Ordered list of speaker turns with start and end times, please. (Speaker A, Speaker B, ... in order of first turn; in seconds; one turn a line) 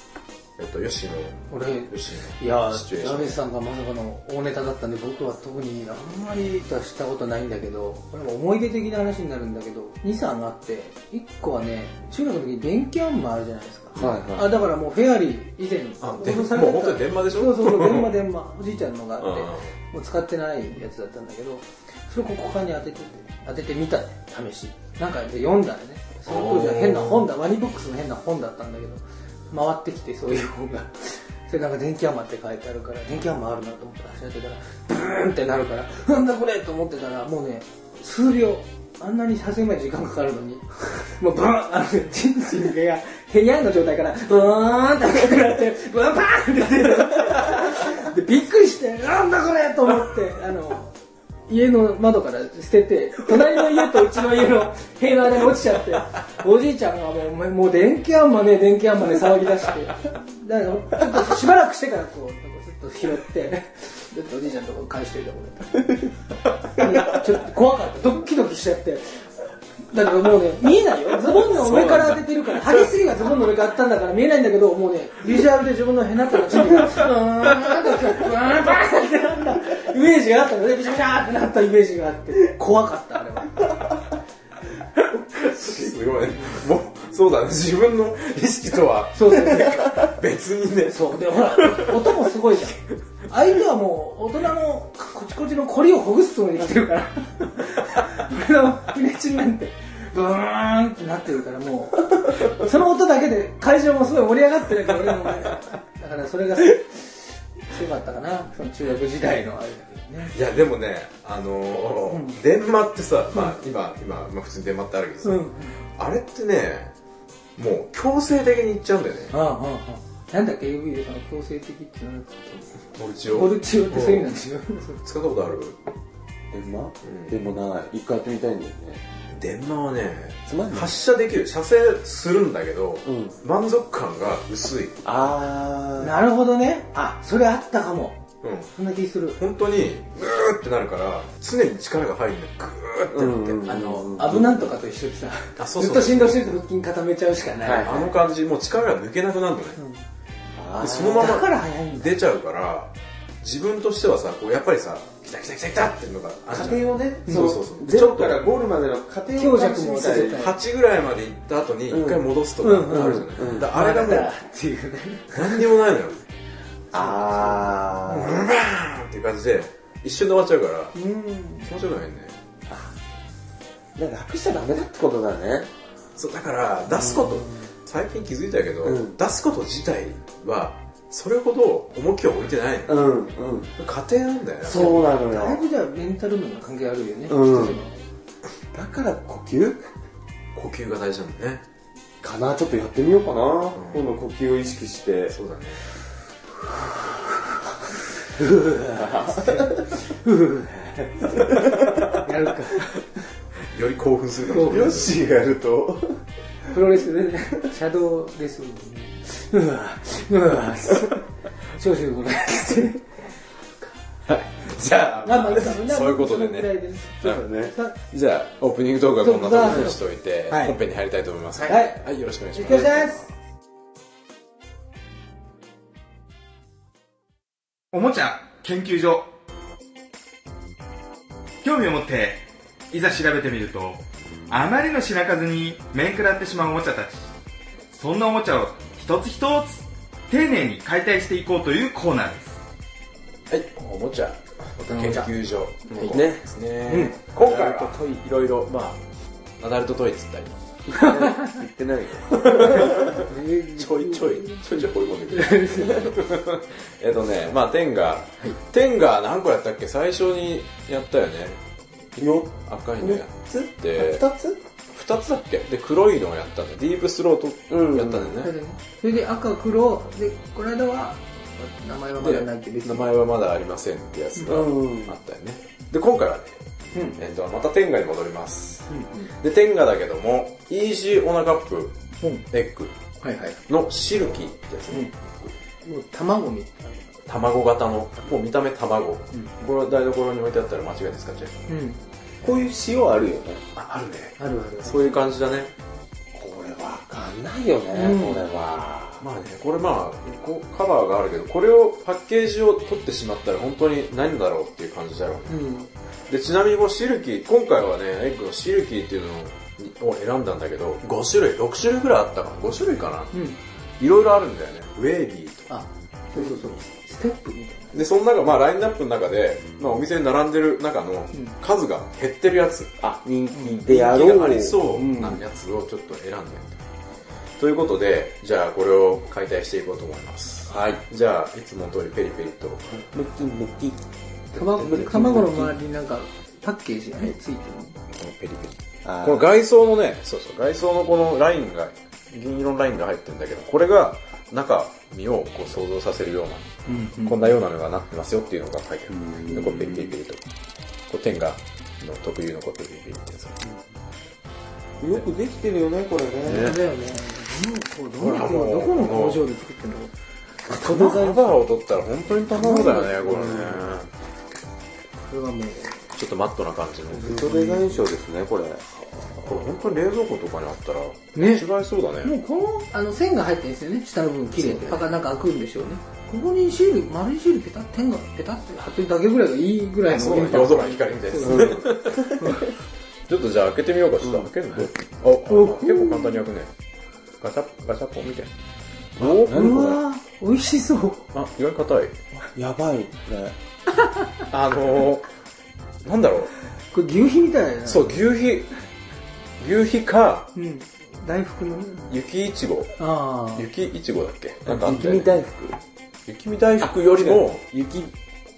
Speaker A: 0.6-3.4
Speaker B: 1.5-50.9
Speaker C: 13.9-14.6
Speaker A: 16.0-18.1
Speaker A: 19.2-19.7
Speaker A: 26.2-27.3
Speaker B: 51.5-65.9
Speaker B: 66.7-69.2
Speaker B: 69.9-83.8
Speaker A: 71.3-72.2
Speaker A: 85.3-92.1
Speaker B: 89.1-90.1
Speaker B: 90.9-110.3
Speaker A: 110.3-116.9
Speaker B: 112.1-112.4
Speaker B: 115.2-115.8
Speaker A: 117.6-119.3
Speaker B: 119.3-125.0
Speaker A: 123.0-124.3
Speaker A: 125.0-125.8
Speaker C: 126.5-129.0
Speaker A: 127.0-127.4
Speaker A: 129.3-135.0
Speaker C: 130.5-131.0
Speaker C: 133.0-133.4
Speaker C: 135.0-136.1
Speaker B: 136.0-138.2
Speaker A: 138.4-138.7
Speaker B: 138.7-139.4
Speaker A: 139.4-143.7
Speaker C: 143.1-144.6
Speaker B: 143.6-148.1
Speaker A: 145.6-146.4
Speaker C: 147.6-148.1
Speaker A: 147.8-149.8
Speaker B: 149.8-150.0
Speaker C: 150.5-151.3
Speaker A: 150.8-158.5
Speaker B: 150.8-152.1
Speaker C: 156.5-160.4
Speaker B: 159.4-160.6
Speaker A: 160.1-164.3
Speaker C: 161.9-162.2
Speaker B: 162.6-165.7
Speaker C: 162.9-163.7
Speaker A: 165.3-166.2
Speaker C: 166.9-168.5
Speaker B: 167.0-167.5
Speaker A: 168.1-171.0
Speaker B: 170.9-171.7
Speaker A: 171.6-172.3
Speaker C: 172.7-172.9
Speaker C: 174.0-175.7
Speaker A: 176.2-183.1
Speaker C: 176.9-177.5
Speaker C: 178.8-179.2
Speaker C: 182.9-183.7
Speaker A: 183.8-185.0
Speaker C: 184.6-185.6
Speaker B: 184.7-188.0
Speaker C: 187.3-187.8
Speaker C: 188.7-189.9
Speaker A: 190.5-191.6
Speaker C: 192.2-195.4
Speaker A: 193.8-194.1
Speaker A: 195.3-195.8
Speaker B: 198.3-203.0
Speaker C: 198.9-200.0
Speaker A: 203.7-205.2
Speaker B: 204.5-205.0
Speaker C: 204.6-206.2
Speaker B: 206.7-213.2
Speaker A: 214.3-217.4
Speaker B: 215.2-218.0
Speaker C: 217.2-217.7
Speaker A: 218.0-223.3
Speaker B: 219.2-220.8
Speaker C: 219.6-219.9
Speaker B: 221.6-223.2
Speaker D: 227.9-229.3
Speaker D: 231.6-237.2
Speaker D: 237.9-242.6
Speaker A: 243.5-249.0
Speaker B: 244.8-245.3
Speaker C: 245.9-246.5
Speaker B: 246.9-247.2
Speaker C: 247.4-248.2
Speaker A: 249.6-250.6
Speaker C: 250.9-253.2
Speaker B: 251.0-251.5
Speaker A: 252.4-261.6
Speaker B: 252.5-256.1
Speaker C: 262.2-264.6
Speaker A: 262.4-264.2
Speaker A: 264.9-268.5
Speaker C: 267.7-268.4
Speaker B: 268.4-273.1
Speaker A: 272.2-276.6
Speaker B: 274.4-274.6
Speaker C: 274.5-275.2
Speaker B: 276.9-277.2
Speaker A: 277.2-282.0
Speaker B: 278.9-279.3
Speaker A: 282.5-283.0
Speaker B: 283.2-283.6
Speaker A: 283.7-285.5
Speaker B: 285.8-287.1
Speaker A: 287.2-291.6
Speaker B: 291.7-292.0
Speaker C: 292.4-293.6
Speaker A: 293.8-295.7
Speaker B: 294.4-295.3
Speaker C: 296.3-299.2
Speaker B: 297.9-298.4
Speaker A: 299.2-305.6
Speaker B: 305.5-305.9
Speaker A: 306.3-313.4
Speaker B: 313.3-313.6
Speaker A: 314.0-315.7
Speaker B: 315.7-318.0
Speaker A: 317.9-323.0
Speaker C: 323.0-325.4
Speaker B: 323.5-323.8
Speaker A: 323.9-326.8
Speaker A: 327.6-333.0
Speaker C: 330.7-331.0
Speaker C: 333.0-335.8
Speaker B: 334.5-338.0
Speaker A: 338.1-346.7
Speaker C: 339.0-339.5
Speaker B: 346.9-347.5
Speaker A: 347.2-350.4
Speaker C: 349.1-350.1
Speaker A: 351.1-353.6
Speaker C: 355.0-356.8
Speaker B: 356.4-360.1
Speaker A: 356.4-356.8
Speaker A: 358.2-359.4
Speaker B: 360.7-361.2
Speaker C: 360.7-361.5
Speaker A: 360.8-364.1
Speaker B: 362.6-363.2
Speaker C: 362.6-363.9
Speaker B: 365.2-366.0
Speaker A: 366.1-367.4
Speaker B: 367.1-368.0
Speaker C: 367.2-368.9
Speaker A: 369.4-372.3
Speaker B: 371.4-371.7
Speaker B: 372.2-382.7
Speaker A: 380.1-382.6
Speaker C: 381.4-382.6
Speaker A: 383.3-386.7
Speaker C: 384.2-384.9
Speaker B: 385.5-386.4
Speaker A: 387.4-388.5
Speaker A: 389.2-390.0
Speaker C: 389.2-390.0
Speaker B: 389.5-391.2
Speaker A: 391.3-392.1
Speaker C: 392.4-393.6
Speaker A: 394.5-395.3
Speaker A: 396.0-396.5
Speaker B: 396.9-398.2
Speaker A: 397.9-398.7
Speaker A: 399.6-400.5
Speaker B: 400.5-402.2
Speaker A: 402.1-403.0
Speaker B: 403.0-403.7
Speaker A: 403.5-405.3
Speaker C: 404.6-405.8
Speaker A: 406.3-407.6
Speaker C: 406.8-408.1